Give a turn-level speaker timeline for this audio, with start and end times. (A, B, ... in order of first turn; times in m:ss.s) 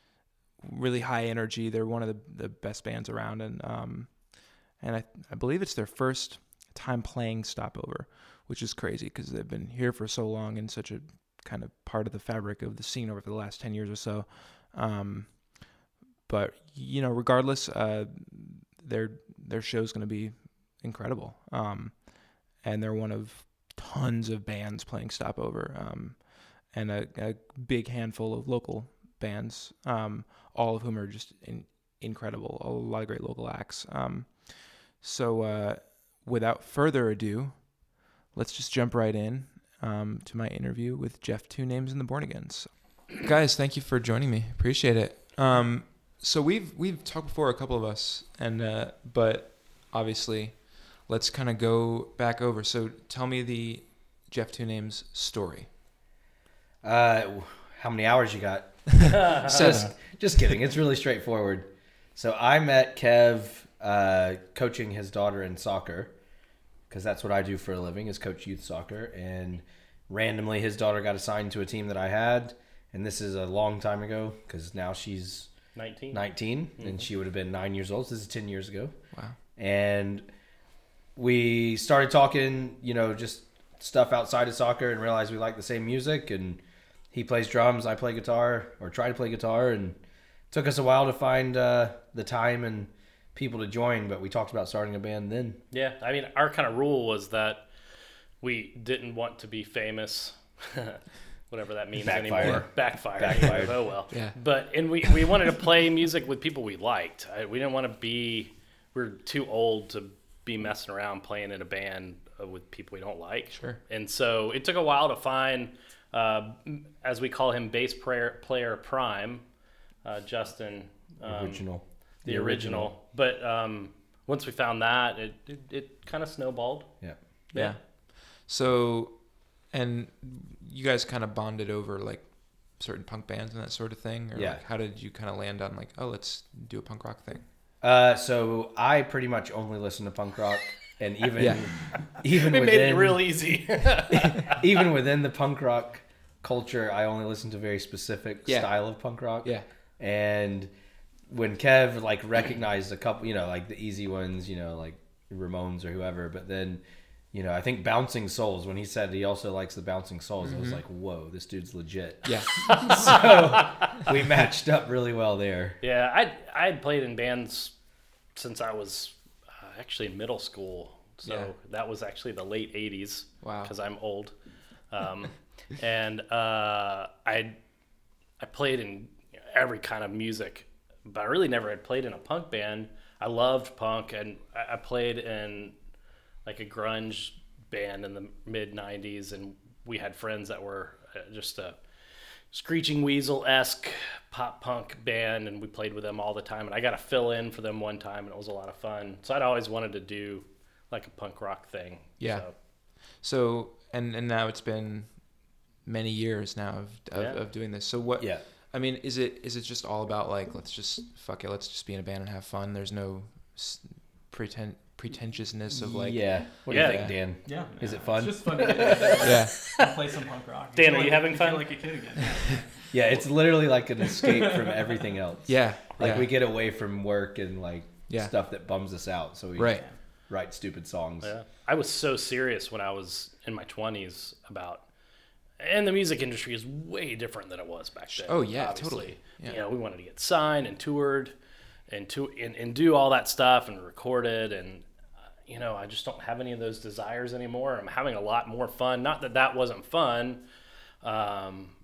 0:00.6-0:15.6 A
0:16.3-0:22.0 A
0:22.5-0:34.3 A
0:35.0-0:37.8 A
0:38.3-0:55.7 A
0:56.8-1:06.1 B
0:58.9-0:59.9 A
0:59.2-0:59.8 C
1:06.9-1:15.5 B
1:15.7-1:16.2 C
1:16.1-1:18.9 B
1:16.8-1:17.0 C
1:19.6-1:20.3 B
1:21.2-1:26.6 B
1:27.1-1:30.0 B
1:30.5-1:35.6 B
1:35.7-1:37.7 C
1:38.4-1:59.4 C
1:42.0-1:43.8 B
1:42.4-1:42.6 A
1:44.1-1:44.4 A
1:53.5-1:53.8 A
2:00.0-2:01.6 C
2:01.2-2:02.9 B
2:02.2-2:06.9 C
2:07.5-2:17.4 A
2:14.3-2:14.6 B
2:17.8-2:23.2 B
2:21.4-2:21.7 A
2:22.2-2:24.6 C
2:24.2-2:30.7 B
2:28.4-2:28.9 A
2:31.3-2:36.8 B
2:37.3-2:45.8 B
2:40.4-2:40.8 A
2:42.2-2:42.6 A
2:42.7-2:43.8 C
2:45.8-2:47.7 C
2:48.3-2:54.3 C
2:53.4-2:53.7 A
2:54.9-2:57.6 C
2:58.4-3:05.7 C
3:06.4-3:11.8 C
3:12.5-3:22.5 C
3:22.2-3:22.5 A
3:23.1-3:25.2 A
3:25.8-3:37.2 A
3:27.1-3:27.4 C
3:35.7-3:39.4 B
3:36.7-3:37.0 C
3:37.4-3:45.1 D
3:39.2-3:39.5 A
3:40.7-3:41.7 C
3:42.9-3:51.3 B
3:45.5-3:46.3 A
3:49.5-3:49.8 A
3:51.2-3:54.8 C
3:55.6-4:01.3 C
3:58.1-3:59.6 A
4:01.9-4:04.9 C
4:05.4-4:10.4 C
4:11.0-4:11.8 C